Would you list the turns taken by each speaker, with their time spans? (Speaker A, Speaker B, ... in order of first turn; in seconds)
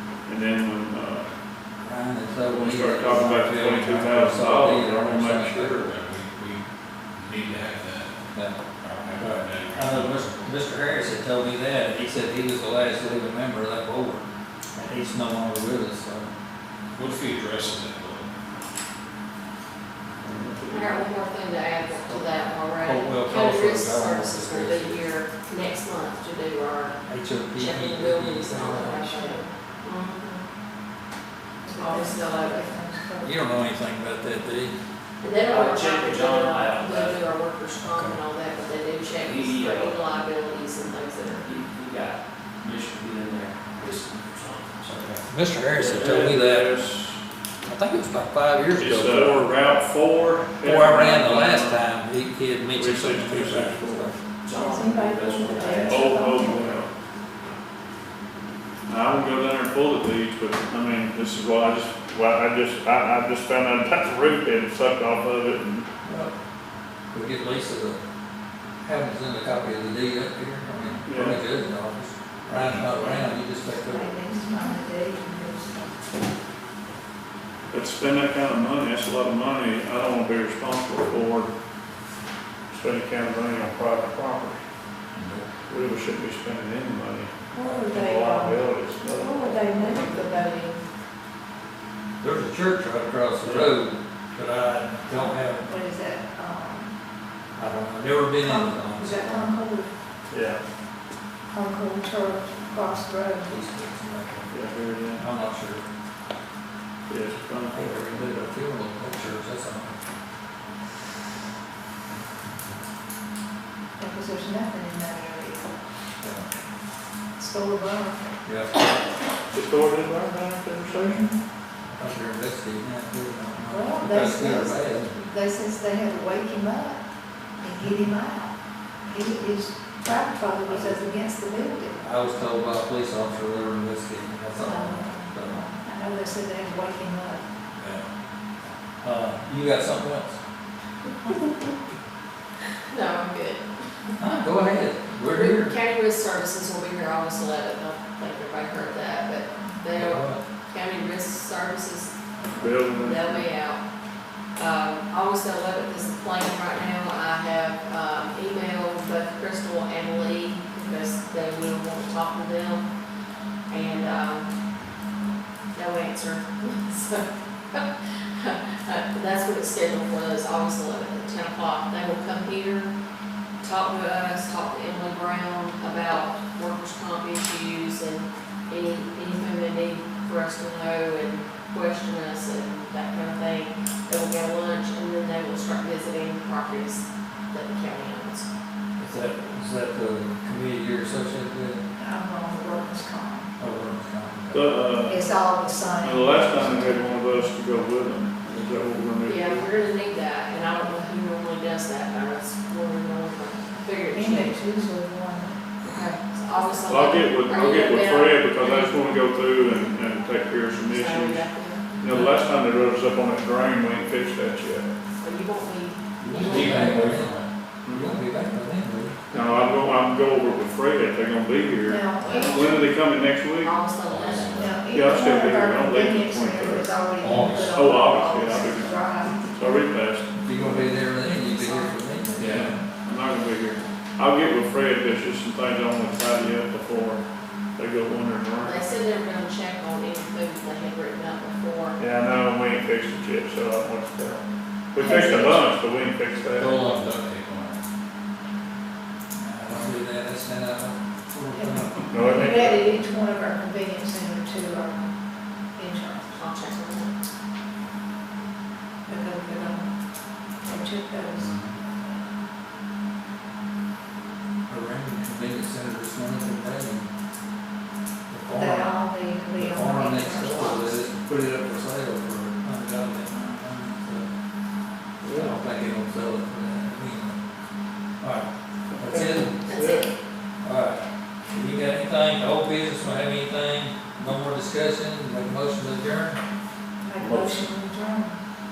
Speaker A: 0.3-1.3, 2.5-5.9, 20.2-21.1, 45.7-47.2, 48.8-51.8, 52.7-54.1, 55.8-56.9, 58.9-65.8, 71.0-71.4, 77.7-81.5, 82.7-84.6, 85.7-90.2, 93.4-93.8, 100.3-100.6, 104.5-105.2, 107.1-108.2, 119.5-121.2, 152.6-153.4, 194.5-195.2, 196.0-199.7, 206.9-211.4, 212.0-214.9, 217.8-218.2, 219.3-223.7, 224.9-227.0, 227.7-229.0, 229.5-230.9, 233.0-237.2, 237.8-238.9, 242.0-246.9, 252.1-252.9, 275.2-275.6, 278.9-280.1
Speaker B: 1.8-5.9, 8.3-8.6, 9.2-16.3, 22.0-25.0, 27.1-29.1, 33.2-34.8, 37.8-38.2, 45.2-46.7, 47.6-49.5, 50.6-54.2, 66.0-66.3, 67.1-68.0, 68.8-74.2, 92.2-95.7, 97.5-99.5, 103.5-104.5, 105.2-105.9, 107.7-110.0, 116.2-116.5, 118.4-118.8, 121.9-125.2, 130.7-131.0, 132.0-135.6, 137.8-138.0, 139.0-140.4, 144.2-145.7, 149.9-150.4, 152.4-152.7, 189.0-191.8, 193.6-194.7, 212.0-212.4, 216.2-217.3, 217.9-219.2, 230.3-232.8, 249.3-252.6, 264.7-267.1, 268.3-274.3, 275.3-277.4, 278.2-279.6, 280.6-286.4
Speaker C: 5.8-8.2, 8.8-10.6, 16.9-18.3, 72.5-72.9, 216.3-217.5, 224.0-224.8, 227.2-227.8, 232.4-232.7, 246.5-247.8, 261.4-261.7
Speaker D: 20.7-30.4, 31.7-32.7, 35.2-41.5, 142.9-144.1, 145.3-152.1, 152.8-153.8, 154.6-162.9, 163.7-164.5, 165.7-172.9, 173.6-188.5, 199.2-204.6, 205.8-208.9, 210.8-211.9, 215.2-217.1, 222.2-222.9, 223.6-224.7, 238.6-242.0, 256.3-257.1, 270.6-270.9, 279.6-280.1
Speaker E: 28.8-29.4, 31.6-33.5, 54.5-56.8, 73.0-76.0, 87.5-90.8, 95.6-97.0, 98.4-99.9, 101.5-103.5, 114.0-115.7, 117.4-118.3, 123.7-127.0, 127.6-128.5, 129.1-132.0, 134.6-137.4, 192.0-193.5, 195.0-197.2, 204.1-205.6, 206.5-207.3, 209.6-210.4, 221.8-222.8, 224.5-229.7, 231.4-232.3, 245.0-245.7, 251.5-255.0, 255.8-256.4, 259.1-259.9, 260.6-261.5, 268.5-271.0, 287.0-288.4
Speaker F: 35.5-37.2, 39.2-40.0, 41.3-45.2, 54.4-56.0